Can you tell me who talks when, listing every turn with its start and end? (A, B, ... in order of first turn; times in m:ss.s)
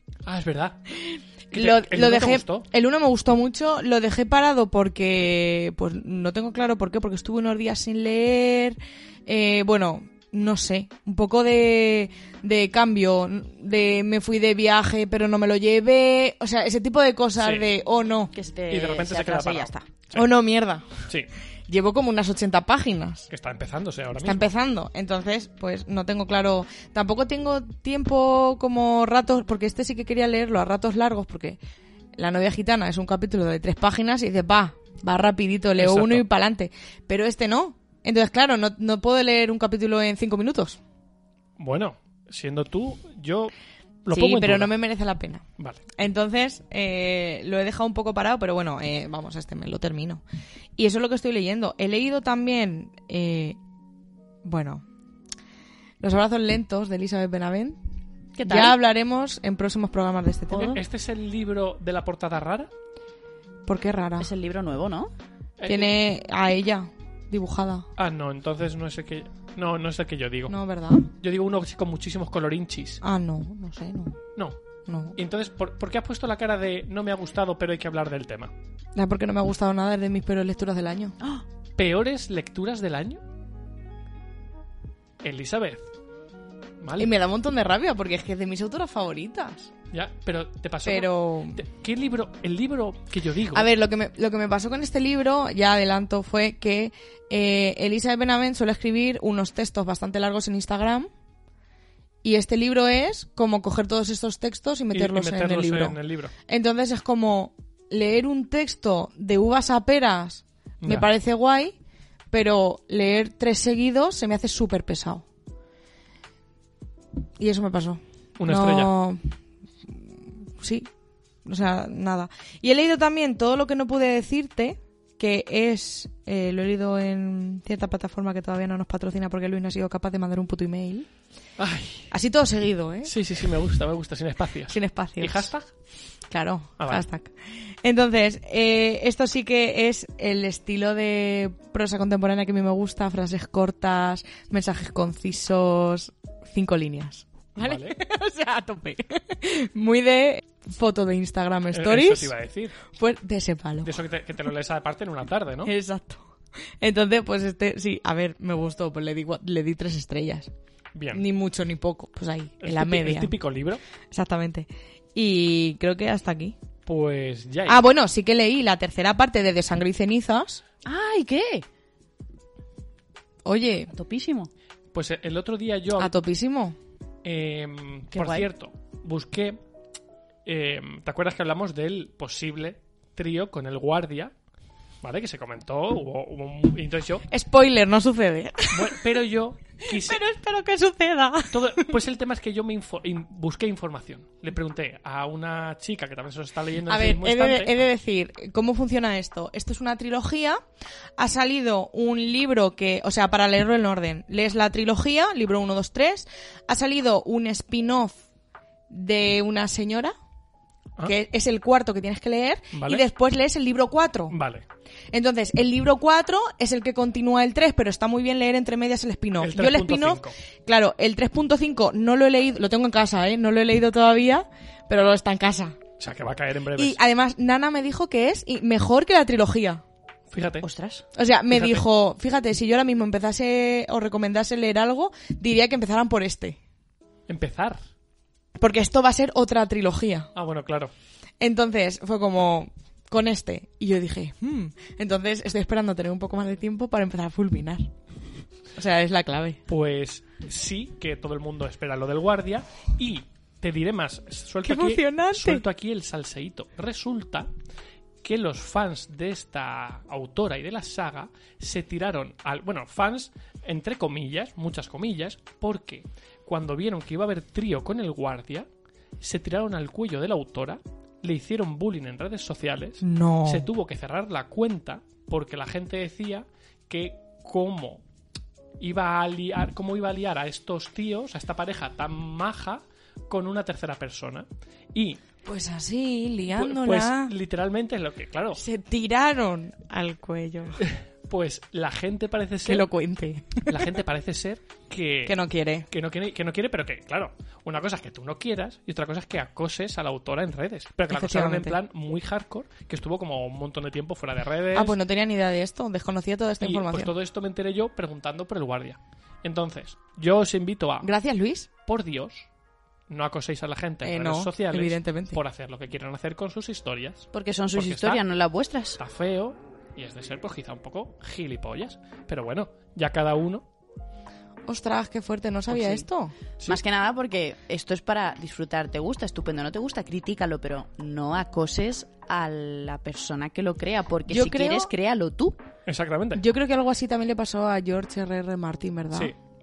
0:00.2-0:00.8 A
0:01.0-0:18.3 B
0:01.5-0:02.7 A
0:17.4-0:17.7 A
0:18.3-0:19.8 C
0:18.7-0:20.3 A
0:20.1-0:21.0 B
0:21.7-0:23.3 B
0:23.3-0:24.5 A
0:24.2-0:31.6 B
0:32.2-0:40.8 B
0:35.8-0:36.2 A
0:41.6-0:43.5 A
0:44.0-0:44.7 A
0:44.1-0:45.4 B
0:46.0-0:50.2 B
0:50.8-0:53.6 B
0:54.4-0:54.8 B
0:56.0-0:57.8 B
0:58.4-0:58.8 C
0:58.4-1:00.8 B
1:00.5-1:00.8 C
1:00.6-1:02.7 A
1:03.7-1:04.3 B
1:04.2-1:05.1 C
1:05.6-1:05.9 A
1:05.7-1:07.9 B
1:08.0-1:10.6 A
1:10.5-1:11.1 B
1:11.2-1:13.0 A
1:13.0-1:14.2 B
1:14.9-1:15.2 B
1:15.2-1:18.5 A
1:19.0-1:21.2 B
1:21.8-1:23.2 A
1:25.2-1:25.9 A
1:26.8-1:27.1 A
1:27.0-1:29.7 B
1:29.9-1:33.7 A
1:30.8-1:31.6 B
1:33.5-1:41.1 B
1:42.2-1:46.0 B
1:44.9-1:46.3 A
1:46.5-1:51.8 B
1:50.8-1:51.1 A
1:52.3-1:55.2 B
1:57.4-1:59.3 B
1:58.4-1:59.0 A
1:59.9-2:00.9 B
2:01.4-2:11.1 B
2:11.6-2:12.1 A
2:12.1-2:13.1 B
2:13.0-2:15.7 A
2:14.7-2:15.5 B
2:16.3-2:32.3 B
2:16.8-2:17.0 A
2:27.6-2:28.0 A
2:31.7-2:32.8 A
2:32.9-2:33.9 B
2:33.8-2:35.7 A
2:35.6-2:40.5 B
2:41.0-2:41.2 A
2:41.1-2:43.4 B
2:42.6-2:43.8 A
2:44.1-2:46.6 B
2:46.9-2:47.8 A
2:47.7-2:50.6 B
2:50.8-2:51.6 C
2:53.4-2:53.9 B
2:53.9-2:54.5 C
2:54.9-2:56.1 A
2:56.0-2:56.8 B
2:57.2-2:59.6 A
2:58.1-2:58.5 C
3:00.5-3:04.3 A
3:05.0-3:07.2 A
3:07.3-3:09.0 B
3:08.7-3:10.2 A
3:09.8-3:12.0 B
3:11.5-3:17.8 A
3:16.9-3:20.6 B
3:21.2-3:28.2 B
3:28.9-3:30.1 B
3:31.0-3:34.4 B
3:32.7-3:33.0 A
3:34.3-3:34.6 A
3:35.1-3:45.8 B
3:39.4-3:40.3 A
3:46.0-3:47.0 A
3:46.8-3:49.8 B
3:50.3-3:50.6 A
3:50.6-3:51.0 C
3:51.2-3:56.6 B
3:51.5-3:51.9 A
3:57.3-3:57.8 A
3:58.6-4:00.3 B
4:00.4-4:00.9 A
4:01.4-4:07.9 B
4:08.8-4:09.6 B
4:09.7-4:17.5 A
4:14.6-4:15.6 B
4:18.2-4:28.7 A
4:29.2-4:38.0 A
4:33.0-4:33.7 B
4:38.8-4:45.2 A
4:45.4-4:47.3 B
4:46.6-4:48.6 A
4:48.6-4:50.8 B
4:50.8-4:52.9 A
4:52.6-4:53.9 B
4:53.7-4:55.4 A
4:55.3-4:55.9 B
4:55.9-5:05.0 A
5:01.1-5:01.8 B
5:04.7-5:07.1 B
5:06.6-5:11.1 A
5:11.0-5:11.7 B
5:11.9-5:12.5 A
5:13.1-5:18.2 A
5:14.0-5:15.4 B
5:17.3-5:19.0 C
5:19.0-5:23.6 A
5:24.7-5:26.3 B
5:25.7-5:26.0 C
5:26.7-5:35.6 C
5:34.3-5:34.9 B
5:35.9-5:36.4 A
5:36.4-5:39.3 B